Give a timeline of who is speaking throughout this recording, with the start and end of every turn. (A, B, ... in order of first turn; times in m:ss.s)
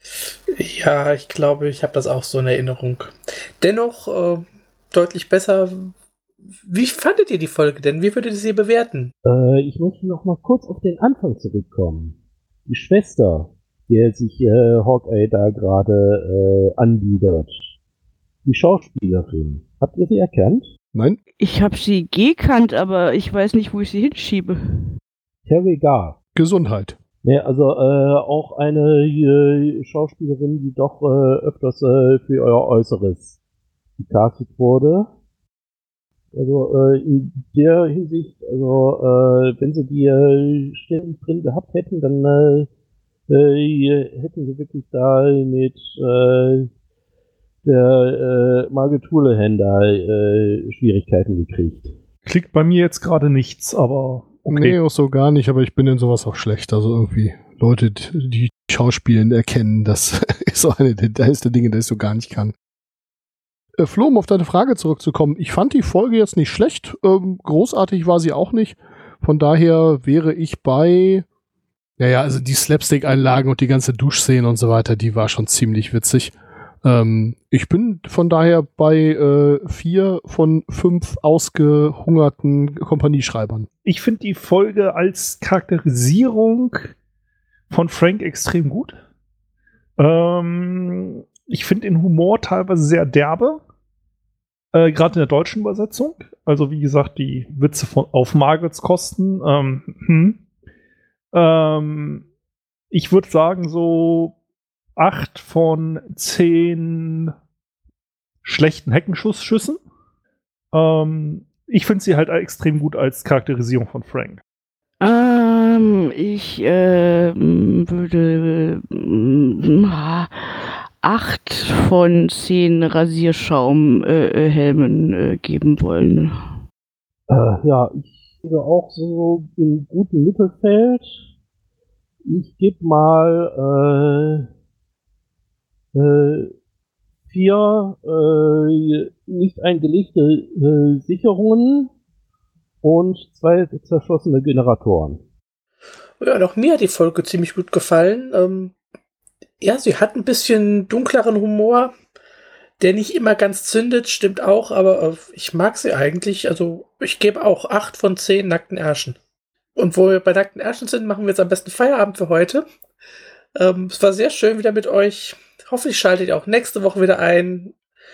0:00.3-0:05.9 A
0:06.7-0:09.1 A
0:09.2-0:17.6 B
0:18.4-0:20.7 B
0:20.9-0:21.2 C
0:21.4-0:24.9 D
0:25.5-0:26.2 B
0:26.4-0:27.0 C
0:27.2-0:33.4 B
0:34.0-0:35.1 B
0:36.3-0:42.7 B
0:43.3-0:46.7 B
0:47.6-0:52.0 B
0:52.2-0:54.8 E
0:54.5-1:02.5 C
1:03.8-1:11.2 C
1:12.0-1:16.3 C
1:16.8-1:23.7 C
1:23.8-1:27.0 E
1:27.7-1:29.0 E
1:30.0-1:33.6 E
1:34.7-1:40.4 E
1:41.3-1:42.3 E
1:42.9-1:44.4 E
1:45.0-1:47.3 E
1:48.4-1:49.8 E
1:50.7-1:54.4 E
1:55.0-2:06.3 D
2:07.3-2:11.2 B
2:12.2-2:14.5 B
2:15.9-2:16.5 B
2:17.3-2:21.9 B
2:22.8-2:25.2 B
2:26.2-2:28.7 A
2:29.6-2:31.9 A
2:32.8-2:39.2 A
2:39.8-2:42.6 A
2:43.6-2:47.8 A